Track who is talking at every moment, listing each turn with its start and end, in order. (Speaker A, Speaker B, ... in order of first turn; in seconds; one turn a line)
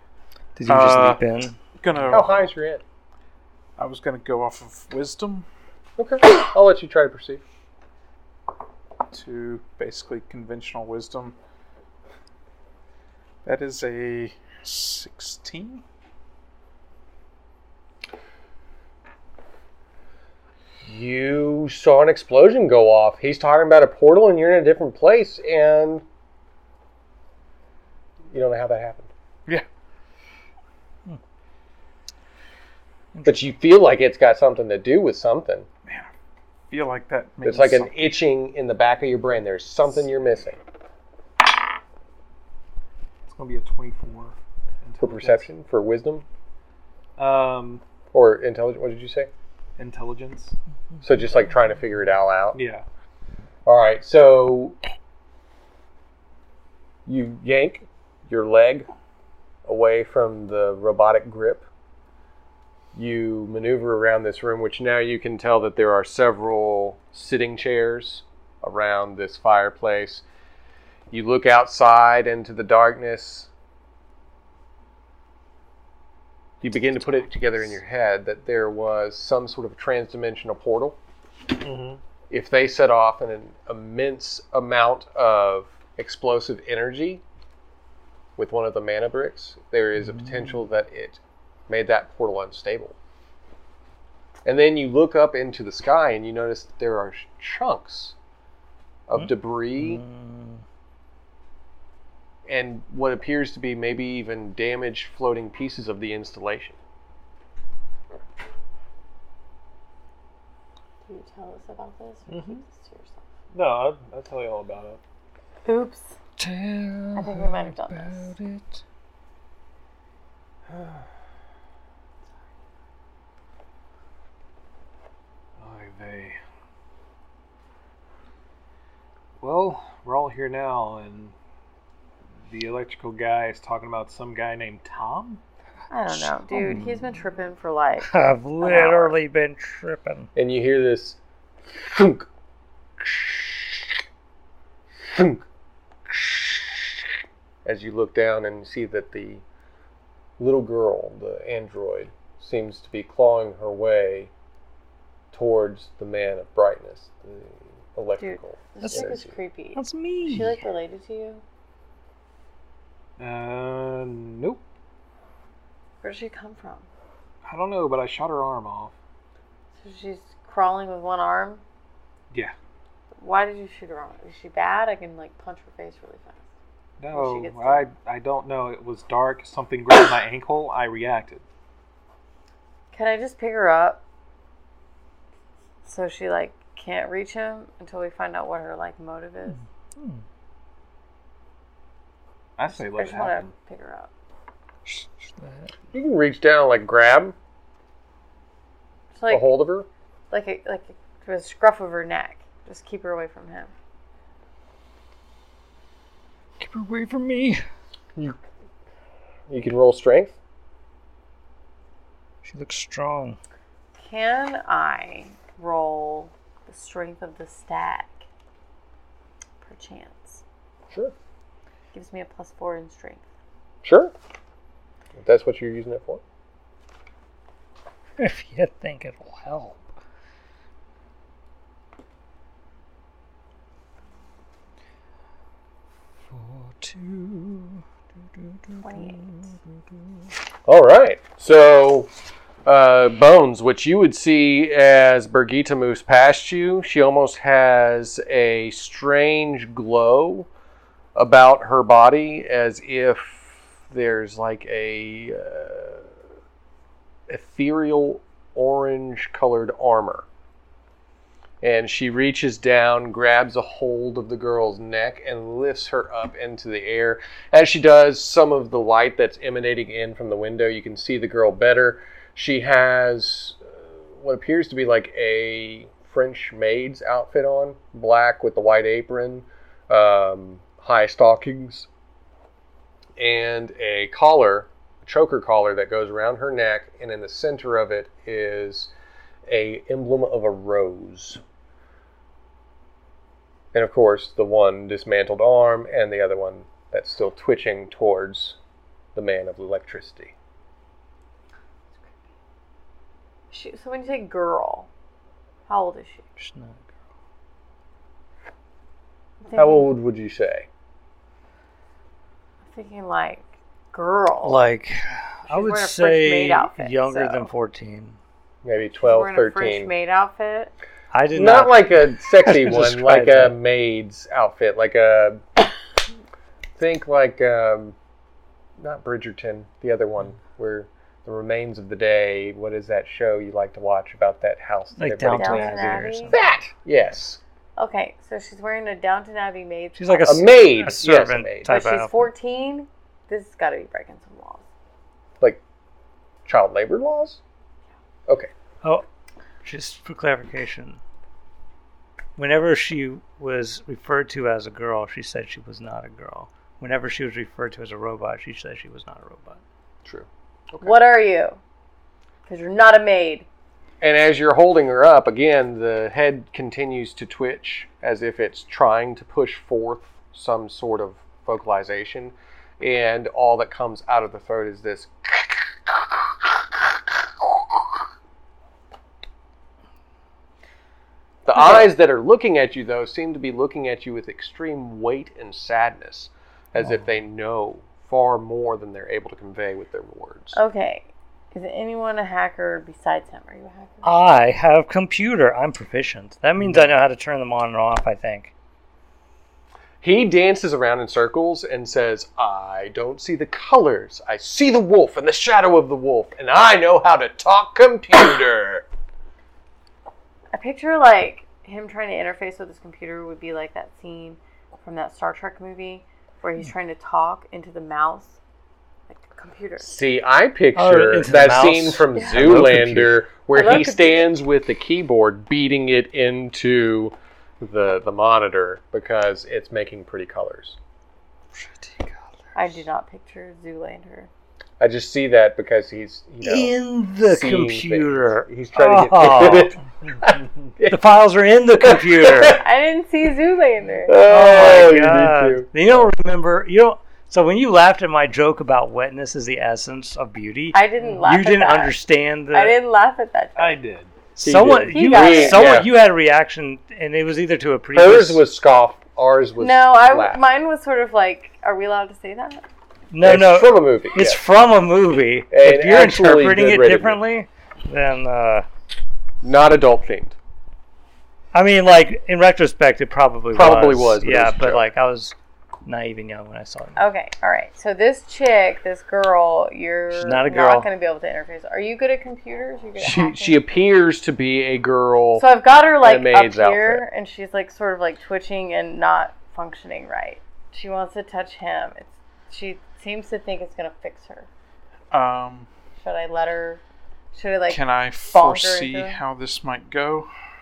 Speaker A: 0.6-1.6
Speaker B: 0.7-1.2
Speaker B: 1.8-2.5
Speaker C: 2.1-2.8
Speaker B: 3.8-5.5
Speaker C: 6.0-7.4
Speaker B: 9.1-11.3
Speaker B: 13.4-15.8
Speaker C: 20.8-26.0
Speaker C: 28.3-29.1
Speaker A: 33.1-33.4
Speaker C: 33.2-35.7
Speaker B: 35.9-36.1
Speaker B: 36.7-38.0
Speaker C: 37.4-40.6
Speaker D: 43.3-45.5
Speaker C: 45.0-46.2
Speaker D: 47.2-47.8
Speaker C: 48.1-49.3
Speaker D: 49.8-50.5
Speaker C: 51.0-52.6
Speaker D: 52.5-52.8
Speaker C: 53.6-54.8
Speaker C: 57.0-58.9
Speaker C: 59.6-61.7
Speaker C: 62.9-70.2
Speaker C: 71.1-73.5
Speaker C: 76.6-81.0
Speaker D: 81.6-82.0
Speaker C: 82.3-87.2
Speaker C: 88.4-93.0
Speaker A: 90.0-90.5
Speaker C: 94.4-98.1
Speaker C: 99.1-100.0
Speaker A: 99.1-100.6
Speaker C: 102.5-106.8
Speaker E: 111.0-113.2
Speaker D: 112.3-112.6
Speaker D: 113.5-115.0
Speaker E: 115.6-116.1
Speaker A: 116.4-118.8
Speaker E: 117.1-118.3
Speaker D: 120.7-121.0
Speaker D: 125.6-126.4
Speaker D: 129.4-131.3
Speaker D: 132.4-135.4
Speaker E: 135.9-139.1
Speaker A: 136.1-137.1
Speaker A: 138.0-140.3
Speaker C: 140.3-142.3
Speaker C: 143.0-144.0
Speaker C: 145.0-145.4
Speaker C: 146.1-147.1
Speaker C: 147.6-149.4
Speaker C: 150.4-154.3
Speaker C: 155.3-159.3
Speaker E: 158.2-161.4
Speaker A: 158.8-159.1
Speaker A: 159.7-160.6
Speaker D: 163.2-164.6
Speaker E: 166.0-166.9
Speaker D: 167.4-168.9
Speaker E: 169.8-171.6
Speaker E: 173.1-176.5
Speaker D: 177.0-181.4
Speaker E: 177.1-177.9
Speaker E: 182.9-184.0
Speaker E: 185.8-189.6
Speaker A: 190.0-190.2
Speaker D: 192.6-193.5
Speaker E: 192.7-194.1
Speaker A: 194.8-195.7
Speaker C: 195.9-197.3
Speaker E: 199.1-199.5
Speaker C: 199.3-199.9
Speaker E: 200.3-203.7
Speaker A: 206.6-207.6
Speaker C: 209.5-210.4
Speaker A: 212.4-213.4
Speaker E: 214.0-218.2
Speaker E: 219.6-220.4
Speaker E: 221.9-223.3
Speaker C: 223.8-224.1
Speaker C: 225.1-226.2
Speaker A: 228.2-229.9
Speaker A: 236.3-237.8
Speaker A: 238.4-239.6
Speaker E: 238.8-239.2
Speaker C: 240.7-242.1
Speaker C: 242.6-250.5
Speaker C: 251.1-256.1
Speaker C: 257.3-260.2
Speaker C: 261.6-281.9
Speaker C: 283.2-288.9
Speaker C: 289.4-291.4
Speaker C: 293.7-298.6
Speaker C: 299.1-300.3
Speaker E: 303.5-304.9
Speaker E: 305.7-306.2
Speaker A: 306.4-306.9
Speaker E: 309.4-309.9
Speaker C: 309.5-310.7
Speaker E: 312.7-314.6
Speaker A: 314.4-318.2
Speaker E: 315.5-317.5
Speaker C: 318.6-319.9
Speaker E: 319.0-320.7
Speaker A: 321.1-323.5
Speaker C: 321.3-325.6
Speaker C: 326.8-327.9
Speaker C: 328.8-337.4
Speaker A: 335.0-336.5
Speaker E: 335.3-336.3
Speaker E: 337.8-340.6
Speaker A: 340.0-342.3
Speaker C: 340.2-341.7
Speaker E: 341.6-344.6
Speaker C: 346.4-347.4
Speaker A: 349.6-351.0
Speaker A: 352.4-359.6
Speaker C: 360.0-360.9
Speaker E: 360.8-361.6
Speaker E: 362.5-363.5
Speaker C: 364.0-378.0
Speaker C: 381.4-390.6
Speaker E: 381.6-381.8
Speaker A: 386.8-387.1
Speaker E: 390.5-394.1
Speaker A: 394.0-398.5
Speaker C: 400.0-408.8
Speaker E: 410.5-418.4
Speaker E: 419.1-419.9
Speaker C: 419.8-430.8
Speaker A: 420.7-423.1
Speaker E: 423.5-424.3
Speaker A: 431.6-432.2
Speaker E: 432.5-434.3
Speaker C: 434.8-441.1
Speaker A: 436.4-439.8
Speaker A: 440.9-442.6
Speaker C: 441.8-442.6
Speaker E: 442.6-444.2
Speaker C: 444.1-446.1
Speaker A: 444.3-452.8
Speaker E: 450.7-452.0
Speaker E: 452.5-453.8
Speaker D: 453.6-454.1
Speaker A: 454.4-458.4
Speaker C: 454.4-455.9
Speaker E: 454.9-455.7
Speaker C: 457.9-460.4
Speaker E: 459.6-462.6
Speaker A: 463.1-468.7
Speaker C: 463.2-464.4
Speaker C: 465.5-467.2
Speaker C: 469.4-470.4
Speaker A: 471.5-475.3
Speaker C: 473.5-474.8
Speaker A: 475.9-477.1
Speaker E: 476.9-483.6
Speaker A: 480.1-480.9
Speaker C: 483.0-485.5
Speaker E: 485.4-494.5
Speaker C: 486.0-487.0
Speaker B: 495.1-495.7
Speaker E: 495.9-496.8
Speaker E: 497.3-499.2
Speaker B: 497.7-500.3